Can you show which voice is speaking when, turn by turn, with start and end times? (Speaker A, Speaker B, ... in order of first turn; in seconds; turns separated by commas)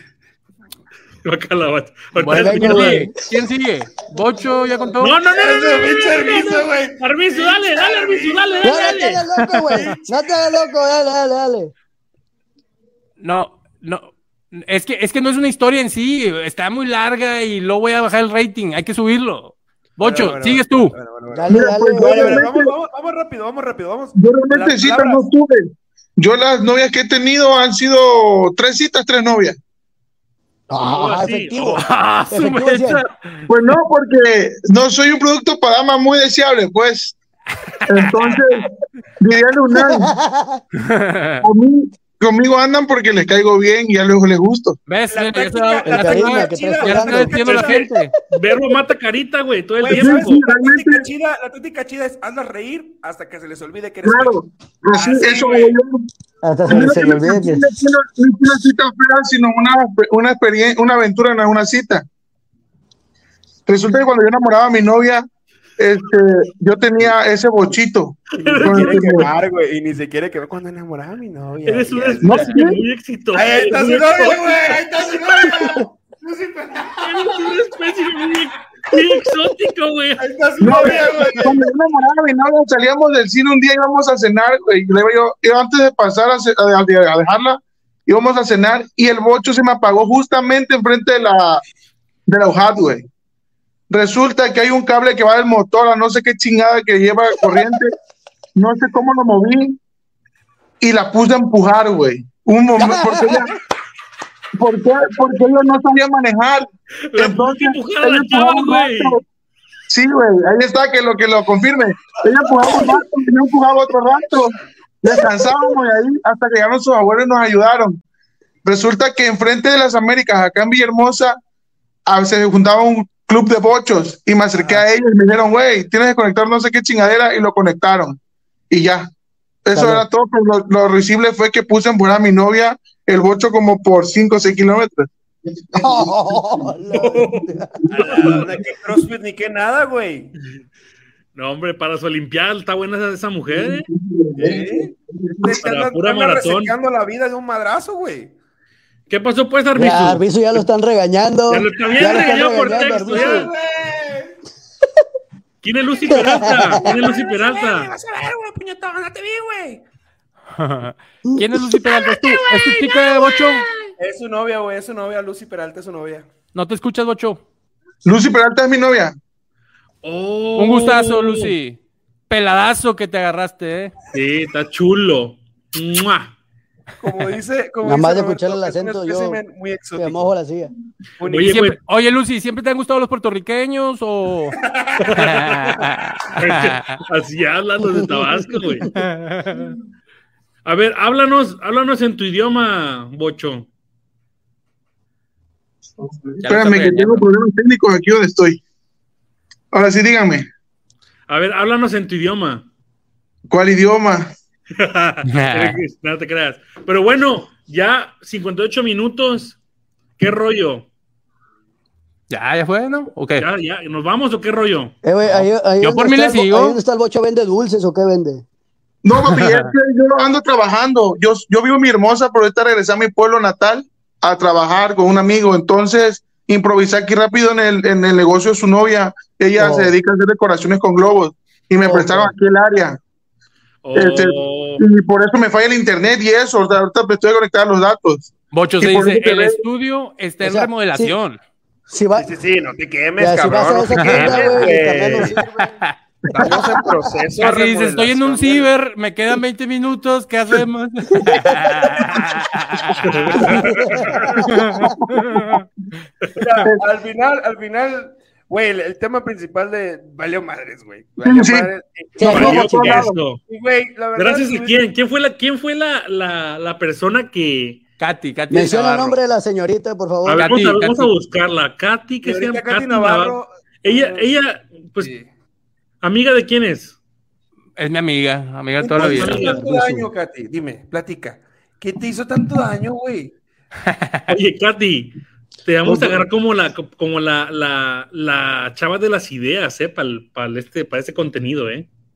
Speaker A: 1.2-3.1, Speaker B: 2.1-5.2, Speaker C: 2.3-3.2, Speaker C: 4.1-5.0, Speaker A: 5.0-9.2, Speaker D: 5.3-10.2, Speaker C: 8.6-11.7, Speaker B: 9.6-10.0, Speaker B: 13.2-20.9, Speaker D: 20.0-25.2, Speaker C: 21.3-22.4, Speaker E: 21.5-22.7, Speaker E: 24.1-29.6, Speaker C: 30.7-33.0, Speaker A: 30.9-31.9, Speaker B: 31.8-33.1, Speaker E: 33.5-37.1, Speaker E: 37.9-40.1, Speaker B: 38.0-38.3, Speaker C: 39.7-40.6, Speaker B: 40.8-41.5, Speaker E: 41.4-44.8, Speaker B: 44.9-48.1, Speaker D: 45.1-47.9, Speaker C: 45.9-48.1, Speaker A: 47.5-47.8, Speaker A: 48.3-50.4, Speaker D: 49.8-54.4, Speaker E: 49.9-51.1, Speaker E: 54.0-56.0, Speaker D: 54.9-55.7, Speaker C: 56.4-57.6, Speaker E: 56.7-62.0, Speaker E: 63.7-65.2, Speaker E: 65.8-69.3, Speaker A: 68.4-69.3, Speaker D: 68.4-72.6, Speaker A: 71.7-74.8, Speaker E: 72.2-72.8, Speaker D: 73.3-77.6, Speaker A: 77.0-81.1, Speaker D: 80.2-81.6, Speaker E: 80.6-91.6, Speaker E: 92.3-93.1, Speaker E: 93.9-97.9, Speaker E: 98.5-99.8, Speaker E: 100.8-103.5, Speaker C: 102.8-103.5, Speaker E: 104.5-109.2, Speaker A: 107.1-109.2, Speaker E: 109.9-118.0, Speaker E: 118.6-121.4, Speaker E: 122.1-128.2, Speaker E: 128.7-129.1, Speaker E: 129.7-136.4, Speaker C: 129.7-130.0, Speaker C: 135.8-137.8, Speaker A: 136.9-138.4, Speaker D: 137.9-140.3, Speaker E: 138.0-138.4, Speaker A: 141.3-143.9, Speaker E: 143.5-145.5, Speaker D: 144.4-148.3, Speaker A: 145.6-146.7, Speaker A: 149.1-150.6, Speaker C: 149.7-153.5, Speaker A: 151.5-153.5, Speaker D: 152.0-154.3, Speaker A: 155.6-157.9, Speaker C: 156.1-156.8, Speaker D: 156.7-159.8, Speaker B: 160.5-163.6, Speaker C: 161.3-161.8, Speaker D: 162.6-163.4, Speaker D: 164.0-166.3, Speaker B: 166.5-167.4, Speaker E: 168.0-169.2, Speaker A: 170.0-171.5, Speaker B: 170.6-171.8, Speaker B: 172.3-173.9, Speaker A: 174.1-176.3, Speaker D: 177.0-180.3, Speaker C: 177.8-179.4, Speaker C: 180.0-180.7, Speaker D: 181.2-181.8, Speaker A: 181.3-181.8, Speaker B: 181.4-184.6, Speaker D: 184.6-185.5, Speaker A: 185.1-185.5, Speaker B: 185.2-187.0, Speaker A: 186.4-188.9, Speaker C: 187.8-188.1, Speaker B: 188.9-189.7, Speaker A: 190.6-193.7, Speaker B: 196.4-197.2, Speaker E: 196.4-198.6, Speaker E: 199.7-200.5, Speaker A: 201.3-202.7, Speaker E: 203.5-204.3, Speaker A: 204.7-209.6, Speaker B: 205.2-205.8, Speaker A: 210.2-210.9, Speaker B: 212.3-213.4, Speaker A: 213.4-214.9, Speaker C: 215.0-218.4, Speaker B: 215.2-216.8, Speaker E: 219.0-233.0, Speaker B: 219.2-219.7, Speaker C: 229.6-229.9, Speaker C: 231.8-232.3, Speaker A: 233.8-234.8, Speaker E: 233.9-239.6, Speaker B: 238.5-241.4, Speaker C: 240.4-241.2, Speaker C: 241.9-242.3, Speaker D: 242.1-245.4, Speaker C: 243.2-245.8, Speaker B: 243.9-244.7, Speaker A: 244.3-244.7, Speaker B: 245.6-245.9, Speaker D: 246.3-248.7, Speaker B: 247.4-253.6, Speaker C: 251.2-251.4, Speaker A: 253.1-254.3, Speaker C: 253.5-255.0, Speaker E: 254.5-255.6, Speaker B: 254.5-255.6, Speaker D: 256.4-262.6, Speaker E: 261.2-263.2, Speaker C: 262.2-262.6, Speaker A: 262.2-263.4, Speaker D: 263.5-264.8, Speaker A: 264.1-267.8, Speaker B: 268.0-269.2, Speaker C: 268.5-270.5, Speaker A: 270.2-275.1, Speaker B: 270.3-271.1, Speaker D: 272.2-274.3, Speaker D: 275.0-275.3, Speaker A: 276.0-277.0, Speaker B: 277.8-280.0, Speaker D: 278.8-283.4, Speaker A: 279.1-279.6, Speaker B: 283.9-284.2, Speaker A: 284.3-291.9, Speaker E: 285.8-286.2